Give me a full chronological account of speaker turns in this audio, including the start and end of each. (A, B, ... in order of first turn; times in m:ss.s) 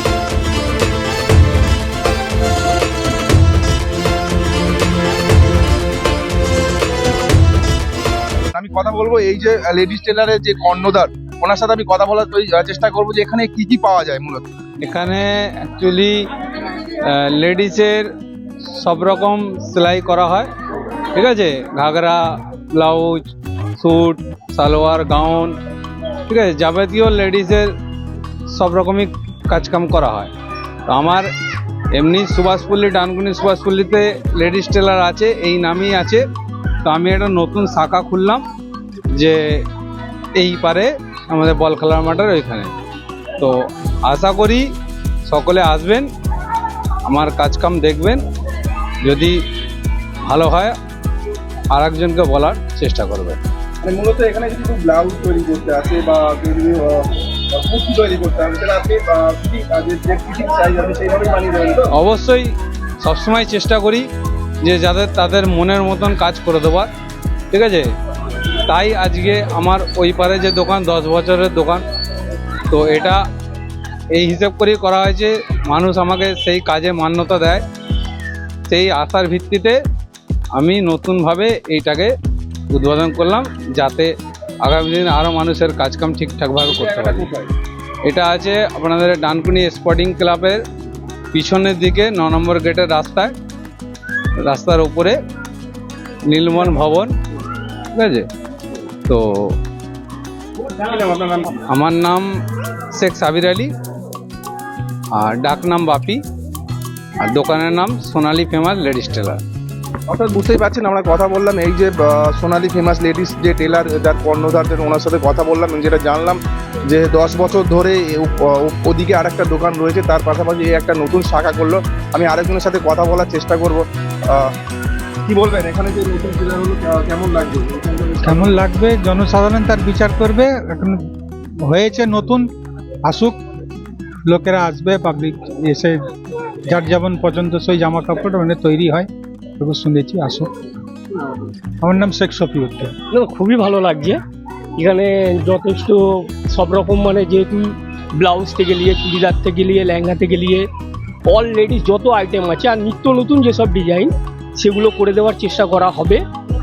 0:08.5-0:14.5 A
0:14.8-0:16.3 B
0:17.0-0:18.1 B
0:18.8-0:20.5 B
0:21.2-0:25.6 B
0:26.3-0:27.7 B
0:28.5-0:30.3 B
0:30.9-0:31.3 B
0:31.9-0:36.2 B
0:36.8-0:38.4 B
0:39.2-0:39.6 B
0:40.4-0:42.7 B
0:43.4-0:44.7 B
0:45.3-0:46.1 B
0:47.1-0:48.2 B
0:49.0-0:49.4 B
0:50.3-0:50.8 B
0:51.7-0:53.4 B
0:53.8-1:01.9 A
1:02.0-1:04.1 B
1:04.6-1:06.9 B
1:07.5-1:07.9 B
1:08.7-1:11.8 B
1:12.7-1:13.2 B
1:14.2-1:17.6 B
1:18.7-1:19.8 B
1:20.6-1:22.1 B
1:22.7-1:24.1 B
1:24.6-1:27.3 B
1:26.7-1:27.5 A
1:28.1-1:30.6 B
1:31.3-1:33.3 B
1:34.4-1:35.2 B
1:36.3-1:37.2 B
1:38.0-1:38.3 B
1:39.1-1:39.6 B
1:40.8-1:41.6 A
1:41.7-1:42.2 B
1:42.9-1:43.7 B
1:45.1-1:46.2 B
1:47.2-1:49.4 B
1:50.1-2:04.5 A
2:05.2-2:08.6 A
2:08.2-2:12.5 C
2:13.1-2:13.4 C
2:14.2-2:20.5 C
2:21.8-2:23.0 C
2:23.1-2:24.2 D
2:24.8-2:30.6 D
2:31.3-2:36.2 D